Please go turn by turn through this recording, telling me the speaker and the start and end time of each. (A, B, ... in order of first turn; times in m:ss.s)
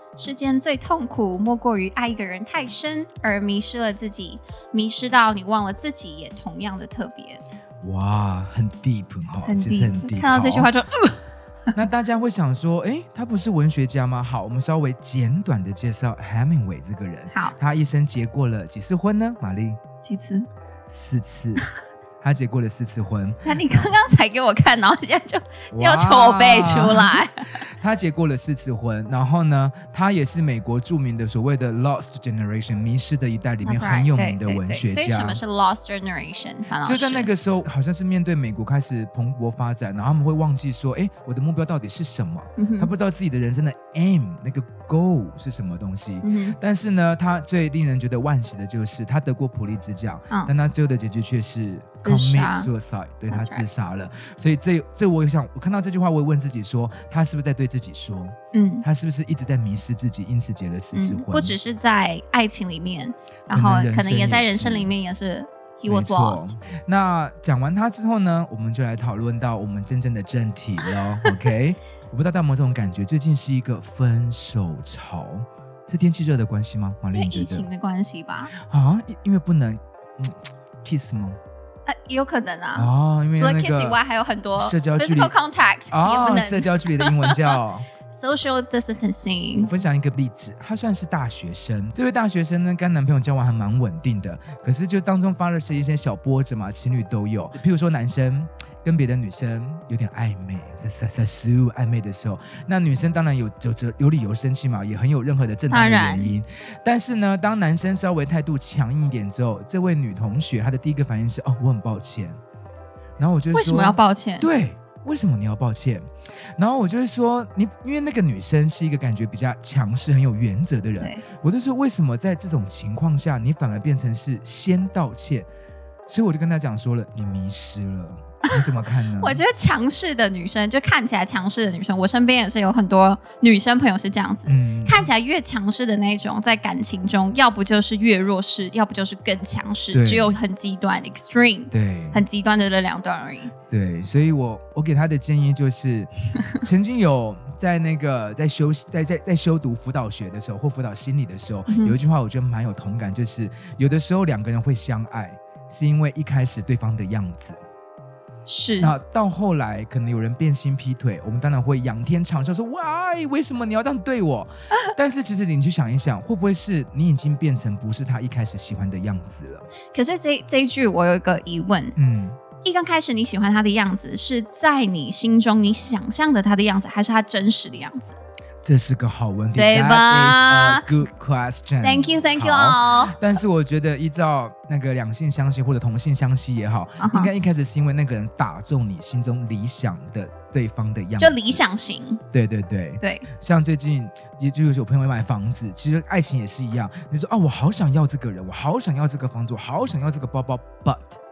0:00.2-0:07.4 A
0:07.8-0:10.7 B
0:09.4-0:11.2 A
0:11.7-0:19.8 B
0:20.0-0:20.5 A
0:20.9-0:21.6 B
0:22.2-0:24.0 B
0:23.4-0:27.6 A
0:25.7-0:35.4 B
0:33.6-0:37.3 A
0:36.8-1:01.6 B
0:42.6-0:42.9 A
0:46.2-0:46.6 A
0:52.0-0:52.7 A
0:53.3-0:53.7 A
0:58.5-0:58.8 A
1:00.9-1:06.6 A
1:03.5-1:04.9 B
1:05.8-1:17.7 B
1:17.1-1:18.5 A
1:18.6-1:21.4 B
1:21.8-1:27.4 A
1:22.7-1:24.0 B
1:24.5-1:25.3 B
1:25.9-1:27.9 B
1:28.1-1:29.7 A
1:29.5-1:52.4 B
1:45.7-1:46.3 A
1:53.2-2:05.5 B
1:53.5-1:54.5 A
2:06.1-2:09.4 B
2:09.2-2:23.5 A
2:14.4-2:15.1 B
2:19.9-2:20.4 B
2:21.7-2:22.2 B
2:23.7-2:37.6 B
2:31.7-2:32.0 A
2:38.4-2:38.9 A
2:38.8-2:49.7 B
2:49.9-2:52.0 A
2:52.0-2:52.4 B
2:52.6-2:58.2 A
2:58.6-3:11.6 B
2:59.5-3:00.9 A
3:01.8-3:03.2 A
3:07.0-3:07.3 A
3:11.2-3:12.2 A
3:12.3-3:21.2 B
3:13.0-3:13.2 A